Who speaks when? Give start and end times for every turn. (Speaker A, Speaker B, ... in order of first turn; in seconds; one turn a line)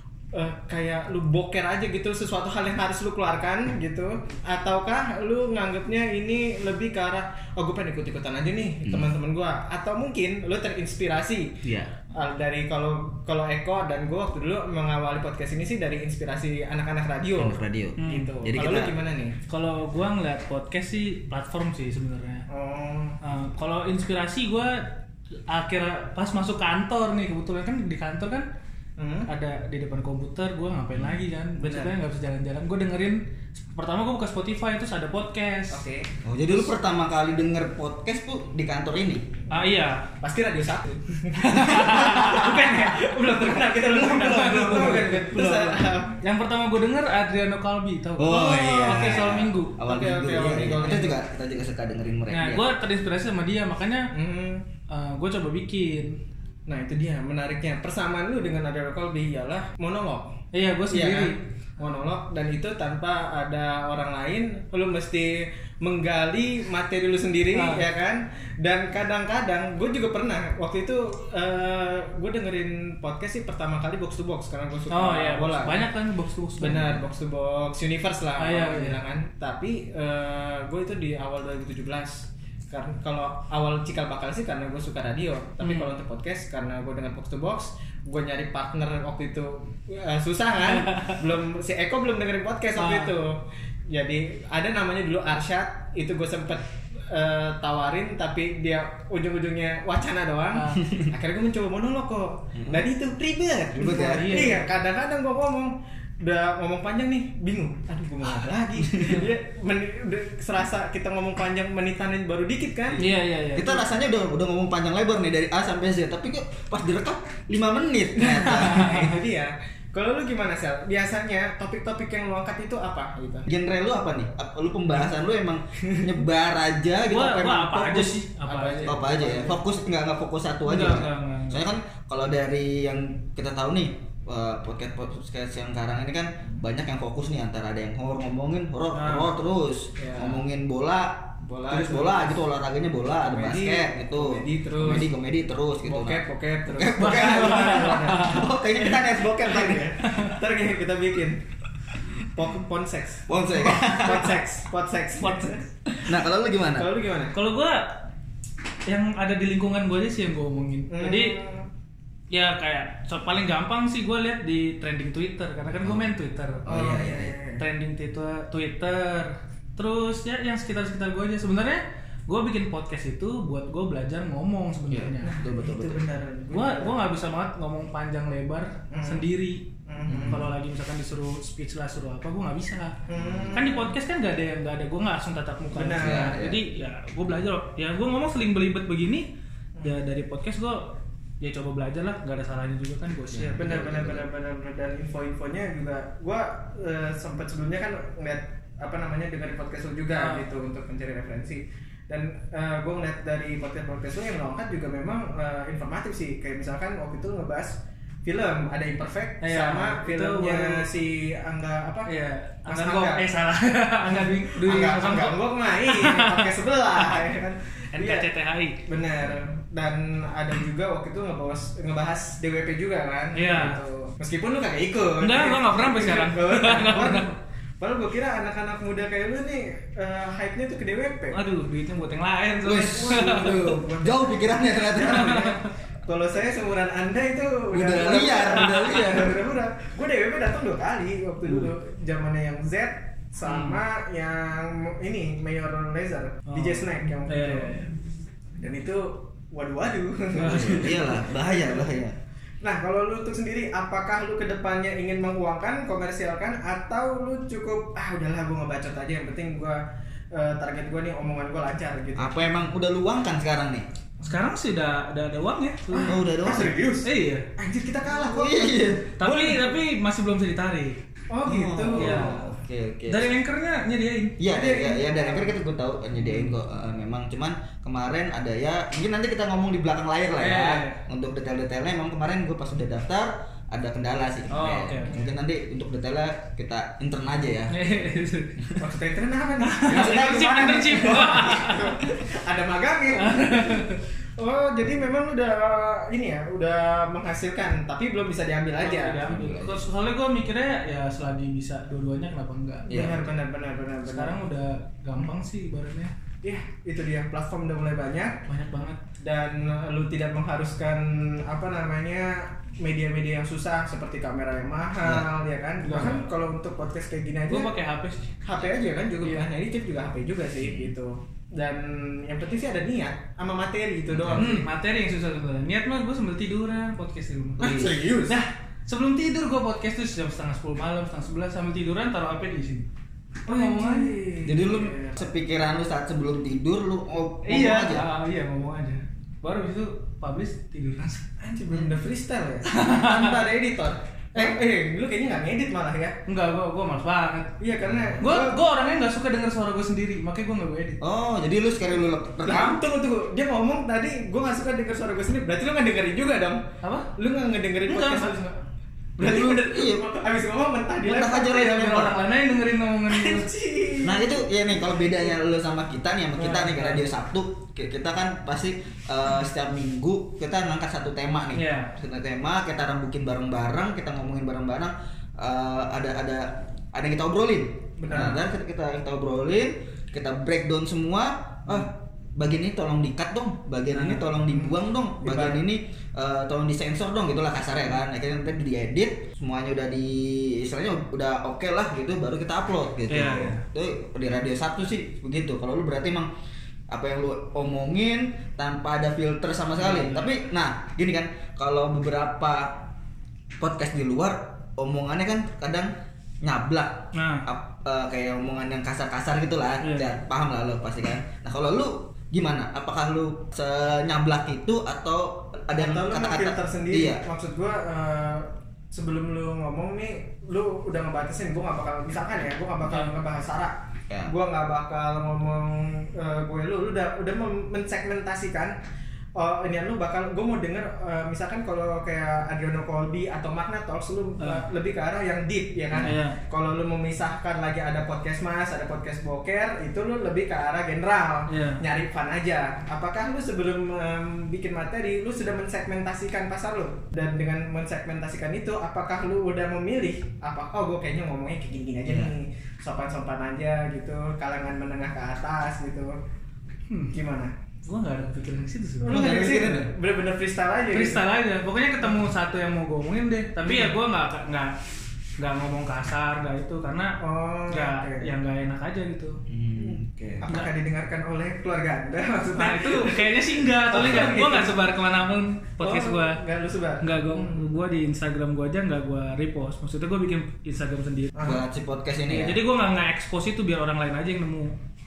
Speaker A: 0.3-11.5
Speaker B: 11.6-11.9
Speaker A: 12.1-19.3
Speaker B: 17.4-18.9
Speaker C: 18.0-18.3
Speaker C: 19.5-22.4
Speaker A: 22.5-23.2
Speaker C: 23.2-24.9
Speaker C: 25.5-28.4
Speaker A: 29.0-29.3
Speaker C: 29.3-35.8
Speaker A: 31.6-31.9
Speaker A: 35.7-36.1
Speaker B: 36.2-39.2
Speaker C: 39.5-40.0
Speaker A: 40.2-46.2
Speaker C: 41.4-42.9
Speaker C: 43.5-45.3
Speaker B: 44.2-45.8
Speaker C: 46.2-49.7
Speaker B: 48.2-52.6
Speaker A: 48.2-51.2
Speaker C: 52.3-54.0
Speaker A: 54.1-54.7
Speaker C: 54.9-56.2
Speaker A: 56.7-60.3
Speaker C: 60.5-61.4
Speaker A: 60.9-75.8
Speaker C: 67.5-67.8
Speaker C: 74.9-77.0
Speaker A: 76.6-113.0
Speaker C: 78.4-79.0
Speaker C: 85.6-85.9
Speaker C: 90.8-91.2
Speaker C: 92.8-93.1
Speaker C: 100.5-100.9
Speaker B: 102.5-102.8
Speaker B: 103.7-104.5
Speaker C: 103.9-104.6
Speaker B: 108.4-109.2
Speaker C: 113.0-113.8
Speaker B: 113.5-118.9
Speaker A: 118.2-123.5
Speaker C: 118.7-119.1
Speaker B: 123.5-128.2
Speaker C: 127.0-129.0
Speaker A: 128.5-129.6
Speaker B: 128.8-149.9
Speaker C: 130.7-131.7
Speaker C: 138.9-139.3
Speaker A: 140.0-140.4
Speaker A: 141.4-142.4
Speaker A: 143.2-145.1
Speaker A: 145.8-151.4
Speaker C: 147.0-148.5
Speaker C: 150.0-150.3
Speaker A: 152.3-155.7
Speaker B: 153.3-154.4
Speaker B: 155.9-156.9
Speaker A: 156.7-157.4
Speaker C: 157.3-158.0
Speaker C: 158.9-161.4
Speaker A: 160.9-161.7
Speaker C: 162.3-166.7
Speaker B: 165.8-166.1
Speaker B: 166.6-167.3
Speaker A: 166.7-167.6
Speaker C: 167.6-175.3
Speaker B: 174.9-176.0
Speaker A: 175.2-177.0
Speaker C: 176.5-179.6
Speaker A: 178.9-179.2
Speaker A: 179.9-180.4
Speaker B: 180.1-180.4
Speaker C: 180.2-182.9
Speaker A: 183.1-183.9
Speaker B: 183.1-183.7
Speaker C: 183.5-189.3
Speaker A: 185.7-186.3
Speaker B: 185.9-186.6
Speaker C: 189.8-194.0
Speaker B: 193.3-194.2
Speaker A: 193.5-212.1
Speaker C: 200.1-200.5
Speaker C: 209.4-210.9
Speaker C: 212.1-216.6
Speaker A: 212.6-213.2
Speaker A: 214.1-218.3
Speaker C: 217.9-218.8
Speaker A: 218.9-227.2
Speaker C: 223.3-223.8
Speaker C: 225.2-227.3
Speaker A: 227.8-231.4
Speaker C: 231.3-233.7
Speaker B: 232.6-235.3
Speaker A: 232.9-247.7
Speaker C: 235.1-235.7
Speaker B: 237.7-239.4
Speaker C: 243.4-243.8
Speaker C: 246.5-247.9
Speaker A: 248.6-251.9
Speaker C: 250.3-251.2
Speaker B: 250.4-252.1
Speaker A: 252.6-259.8
Speaker A: 260.3-262.4
Speaker B: 262.1-263.9
Speaker C: 264.2-266.1
Speaker A: 265.9-269.0
Speaker B: 266.0-266.8
Speaker C: 267.0-267.4
Speaker B: 268.1-269.6
Speaker C: 269.2-271.0
Speaker A: 271.3-272.4
Speaker B: 271.4-273.3
Speaker C: 272.0-272.5
Speaker C: 273.1-274.4
Speaker B: 274.4-287.8
Speaker A: 274.5-275.5
Speaker C: 276.2-276.6
Speaker C: 280.4-281.0
Speaker C: 284.5-285.2
Speaker C: 287.7-288.6
Speaker A: 288.8-299.2
Speaker C: 289.6-292.0
Speaker B: 289.9-291.2
Speaker C: 293.2-294.0
Speaker C: 298.8-303.1
Speaker B: 299.2-299.8
Speaker A: 302.9-304.4
Speaker B: 302.9-303.2
Speaker C: 304.0-306.1
Speaker A: 306.4-308.4
Speaker C: 308.5-309.0
Speaker A: 309.2-317.7
Speaker C: 315.8-316.3
Speaker C: 317.5-318.4
Speaker A: 318.4-324.6
Speaker B: 320.6-320.9
Speaker B: 324.1-324.6
Speaker C: 324.3-332.9
Speaker B: 327.6-327.9
Speaker A: 327.6-328.4
Speaker C: 333.4-334.1
Speaker A: 333.4-335.2
Speaker B: 334.4-338.1
Speaker C: 337.4-341.2
Speaker A: 341.4-346.1
Speaker C: 342.6-343.5
Speaker C: 346.3-347.5
Speaker A: 347.6-348.6
Speaker B: 347.8-348.4
Speaker C: 348.2-351.0
Speaker B: 351.0-352.8
Speaker A: 352.4-356.6
Speaker C: 356.8-357.1
Speaker A: 357.2-358.4
Speaker C: 357.9-358.5
Speaker A: 359.2-362.1
Speaker B: 359.2-360.1
Speaker B: 361.0-362.1
Speaker C: 361.6-363.5
Speaker A: 363.1-365.2
Speaker B: 364.0-396.3
Speaker C: 366.4-367.0
Speaker C: 371.5-371.9
Speaker A: 378.0-378.4
Speaker C: 383.9-384.2
Speaker A: 384.6-385.6
Speaker C: 393.1-393.6
Speaker B: 396.9-402.9
Speaker C: 399.8-400.3
Speaker B: 403.6-405.9
Speaker B: 406.4-417.2
Speaker C: 407.1-407.4
Speaker C: 409.8-410.1
Speaker A: 415.7-428.7
Speaker C: 422.9-423.1
Speaker A: 429.4-456.1
Speaker C: 436.0-436.4
Speaker C: 441.5-441.8
Speaker B: 452.1-452.3
Speaker C: 456.9-457.1
Speaker A: 457.1-457.5
Speaker C: 457.8-459.5
Speaker A: 459.0-461.2
Speaker B: 459.1-459.9
Speaker C: 460.9-464.8
Speaker A: 463.6-463.9
Speaker C: 465.4-467.2
Speaker A: 467.2-468.3
Speaker C: 467.7-469.4
Speaker B: 469.5-470.5
Speaker A: 469.8-474.8
Speaker C: 472.5-476.4
Speaker A: 475.8-477.7
Speaker C: 477.0-481.3
Speaker A: 481.3-481.6
Speaker B: 481.4-482.6
Speaker C: 482.3-484.7